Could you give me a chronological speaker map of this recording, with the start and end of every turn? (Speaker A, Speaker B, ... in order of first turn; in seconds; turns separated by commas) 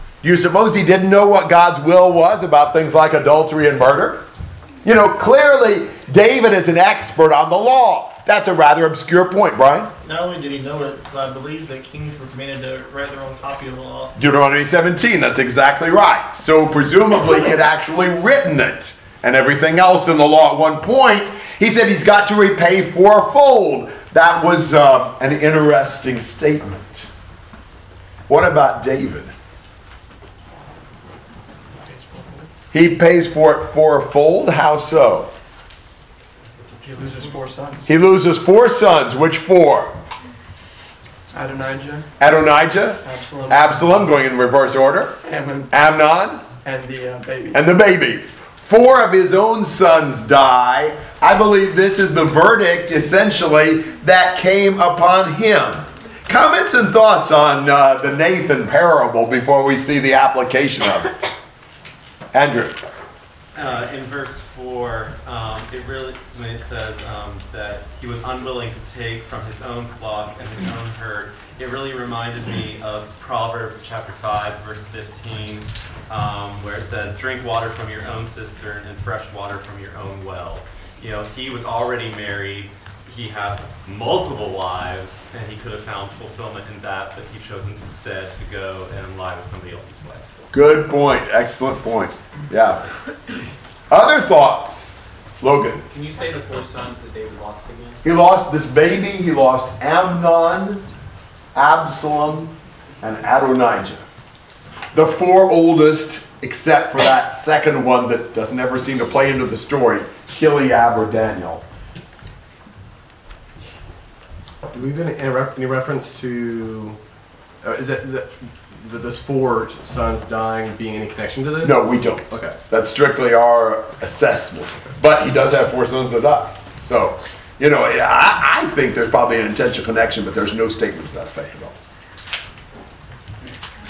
Speaker A: 0.2-4.2, Speaker A: 4.8-9.9, Speaker B: 10.0-14.1, Speaker A: 14.2-27.1, Speaker A: 28.3-29.3, Speaker C: 31.9-32.5, Speaker A: 32.7-35.3, Speaker C: 36.7-37.9, Speaker A: 37.9-40.0, Speaker C: 41.3-42.1, Speaker A: 42.2-45.2, Speaker C: 43.0-44.2, Speaker C: 45.2-45.7, Speaker A: 45.7-46.4, Speaker C: 46.6-47.6, Speaker A: 47.5-61.1, Speaker A: 62.3-62.8, Speaker D: 63.5-90.3, Speaker A: 90.5-92.8, Speaker A: 93.9-95.9, Speaker E: 95.9-98.0, Speaker A: 98.0-100.8, Speaker A: 101.5-104.0, Speaker A: 104.9-111.6, Speaker C: 114.7-117.0, Speaker C: 117.6-122.5, Speaker A: 121.6-131.8